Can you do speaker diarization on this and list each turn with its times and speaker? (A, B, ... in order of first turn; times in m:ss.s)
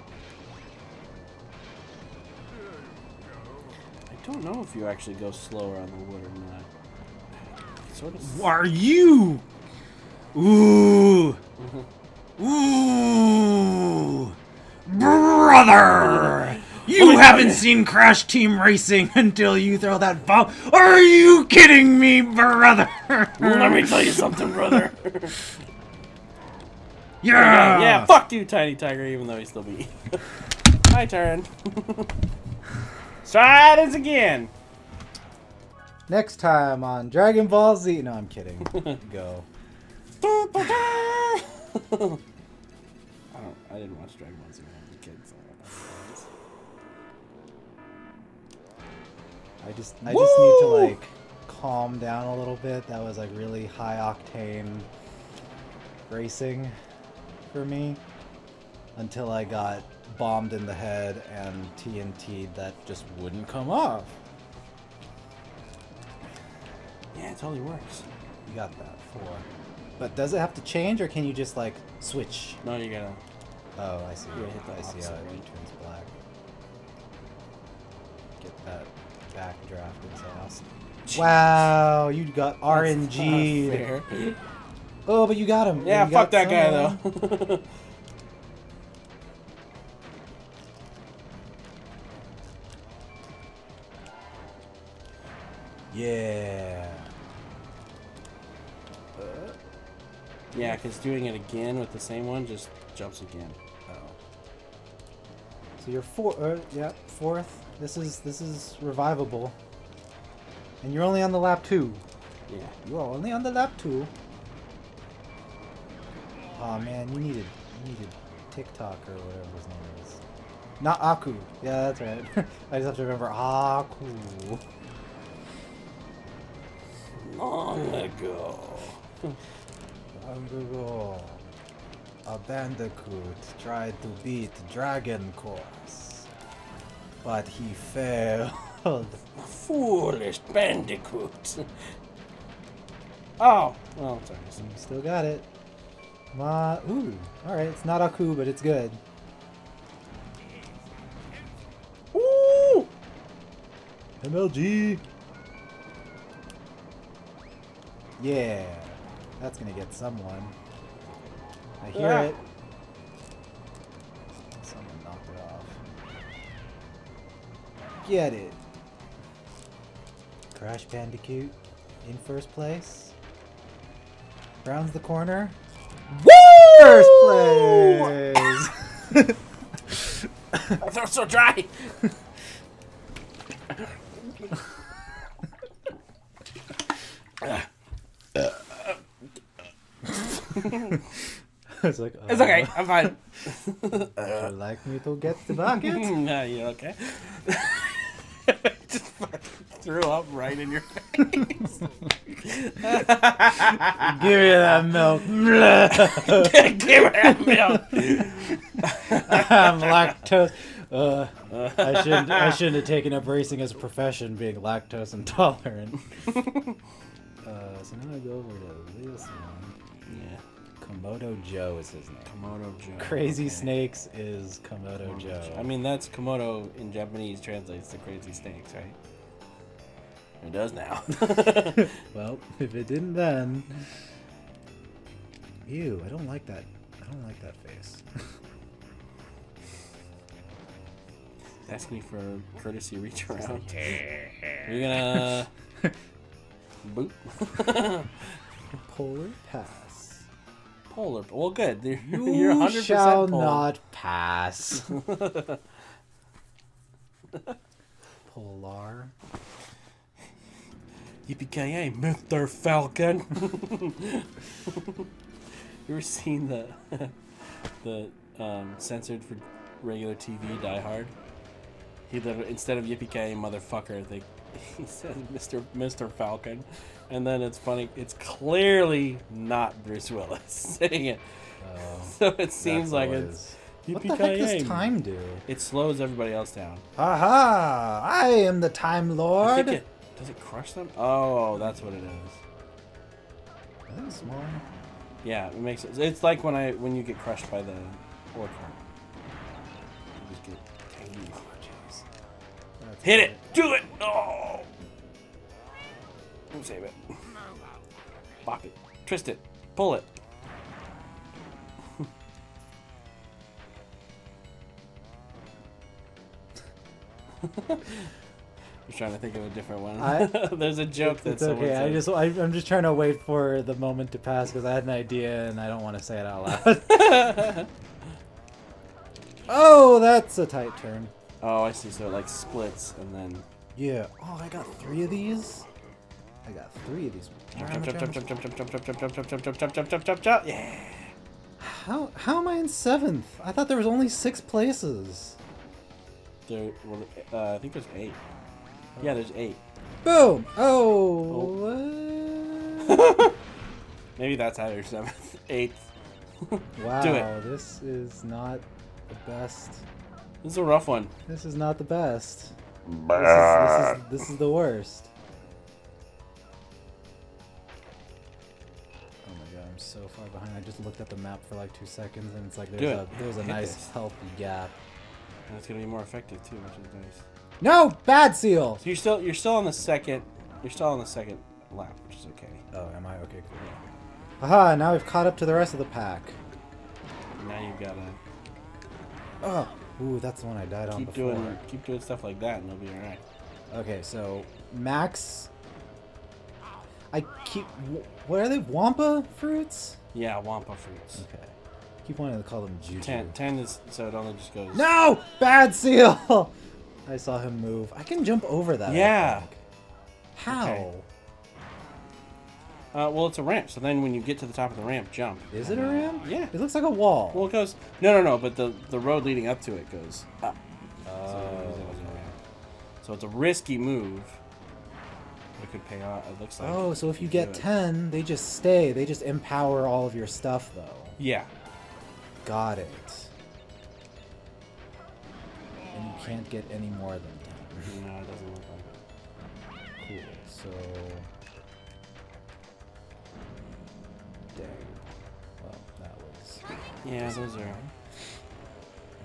0:04.1-0:06.7 A
0:07.8-0:08.4 A
0:08.2-0:09.4 B
0:10.3-0:11.4 B
0:11.6-0:11.8 A
0:12.4-0:14.3 B
0:14.8-0:24.8 B
0:16.8-0:17.7 A
0:23.4-0:25.4 A
0:27.2-0:28.1 B
0:27.3-0:32.2 A
0:33.2-0:34.5 A
0:36.1-0:39.5 B
0:40.2-0:42.2 A
0:43.3-0:46.3 A
0:49.6-0:54.9 B
0:50.0-0:51.0 A
0:56.1-0:56.7 B
0:57.5-0:58.0 B
0:59.0-1:04.2 B
1:07.1-1:08.0 A
1:08.4-1:09.5 B
1:10.0-1:12.6 B
1:12.6-1:13.2 A
1:13.8-1:16.1 B
1:14.3-1:15.4 A
1:18.4-1:23.9 B
1:21.0-1:21.8 A
1:22.7-1:24.4 A
1:25.0-1:27.0 B
1:25.8-1:27.6 A
1:35.9-1:37.1 B
1:39.2-1:39.6 B
1:40.5-1:40.8 B
1:40.5-1:43.6 A
1:43.9-1:44.2 B
1:45.8-1:49.6 B
1:50.8-1:52.0 B
1:52.5-1:52.8 A
1:52.8-1:54.1 B
1:56.6-2:00.2 B
2:00.8-2:04.6 B
2:07.1-2:09.4 A
2:10.1-2:11.4 B
2:12.2-2:16.3 B
2:17.2-2:19.2 B
2:19.3-2:21.7 A
2:23.4-2:24.6 A
2:24.6-2:25.5 B
2:26.3-2:29.0 B
2:32.1-2:32.9 A
2:34.2-2:35.0 B
2:38.2-2:40.6 B
2:41.1-2:41.4 A
2:41.8-2:42.4 B
2:41.9-2:42.4 A
2:44.6-2:45.8 B
2:48.0-2:48.6 B
2:50.5-2:53.1 B
2:54.6-2:55.6 B
2:56.1-2:58.7 A
2:56.6-2:59.4 B
2:59.9-3:00.8 B
3:00.7-3:02.1 A
3:03.7-3:04.6 A
3:07.4-3:07.7 A
3:08.4-3:09.0 A
3:10.1-3:11.0 A
3:11.8-3:13.1 B
3:12.3-3:14.5 A
3:14.2-3:16.2 B
3:15.5-3:21.8 A
3:22.4-3:24.6 A
3:24.0-3:28.2 B
3:25.9-3:30.2 A
3:29.1-3:36.0 B
3:31.5-3:32.7 A
3:36.3-3:36.8 A
3:37.4-3:39.8 B
3:40.1-3:40.4 A
3:40.8-3:42.3 B
3:42.2-3:43.8 A
3:43.0-3:45.7 B
3:45.0-3:49.0 A
3:50.4-3:52.0 A
3:51.4-3:53.8 B
3:55.6-3:58.0 B
4:01.6-4:04.0 A
4:03.3-4:05.9 B
4:04.6-4:05.5 A
4:06.8-4:08.4 A
4:08.8-4:10.2 B
4:10.9-4:13.7 A
4:12.0-4:14.9 B
4:14.8-4:15.6 A
4:18.3-4:19.1 B
4:21.2-4:25.1 A
4:25.9-4:27.2 A
4:27.8-4:31.1 A
4:32.1-4:41.2 A
4:41.6-4:45.4 B
4:42.0-4:44.9 A
4:45.4-4:46.8 A
4:47.0-4:49.8 B
4:49.4-4:52.4 A
4:53.9-4:54.6 B
4:55.2-4:58.8 A
5:00.2-5:01.5 A
5:01.6-5:02.0 B
5:02.8-5:03.4 B
5:03.0-5:04.7 A
5:06.5-5:07.4 A
5:08.4-5:10.1 A
5:17.4-5:18.1 A
5:18.9-5:22.1 A
5:20.0-5:27.4 B
5:26.8-5:27.7 A
5:29.5-5:31.1 B
5:31.4-5:33.4 A
5:33.7-5:35.6 B
5:36.4-5:38.2 B
5:37.5-5:41.1 A
5:41.6-5:45.4 B
5:46.5-5:48.2 A
5:49.0-5:49.6 A
5:50.0-5:53.1 B
5:51.3-5:51.5 A
5:52.8-5:53.3 A
5:54.2-5:55.9 A
5:56.4-5:57.3 A
5:56.8-5:59.8 B
6:00.4-6:01.1 A
6:01.3-6:02.5 B
6:03.1-6:05.1 B
6:09.2-6:14.7 B
6:12.8-6:13.9 A
6:15.5-6:17.2 A
6:17.6-6:18.8 B
6:18.8-6:22.6 A
6:22.7-6:23.6 B
6:24.4-6:26.4 B
6:27.4-6:28.2 A
6:29.4-6:31.6 B
6:30.9-6:33.2 A
6:33.7-6:35.5 B
6:37.1-6:40.0 B
6:40.1-6:41.2 A
6:41.2-6:41.5 B
6:42.0-6:43.3 B
6:43.0-6:44.8 A
6:44.7-6:46.5 B
6:47.0-6:49.6 B
6:48.8-6:49.5 A
6:50.3-6:51.0 B
6:50.5-6:50.8 A
6:52.9-6:56.5 A
6:55.5-6:57.5 B
6:57.3-7:00.6 A
7:01.0-7:02.2 B
7:01.2-7:02.3 A
7:03.0-7:04.4 A
7:05.6-7:07.7 A
7:06.6-7:11.2 B
7:11.2-7:11.5 A
7:12.4-7:13.3 B
7:15.9-7:17.9 B
7:17.8-7:19.0 A
7:20.0-7:21.3 B
7:24.6-7:24.9 B
7:25.6-7:27.9 B
7:27.0-7:27.8 A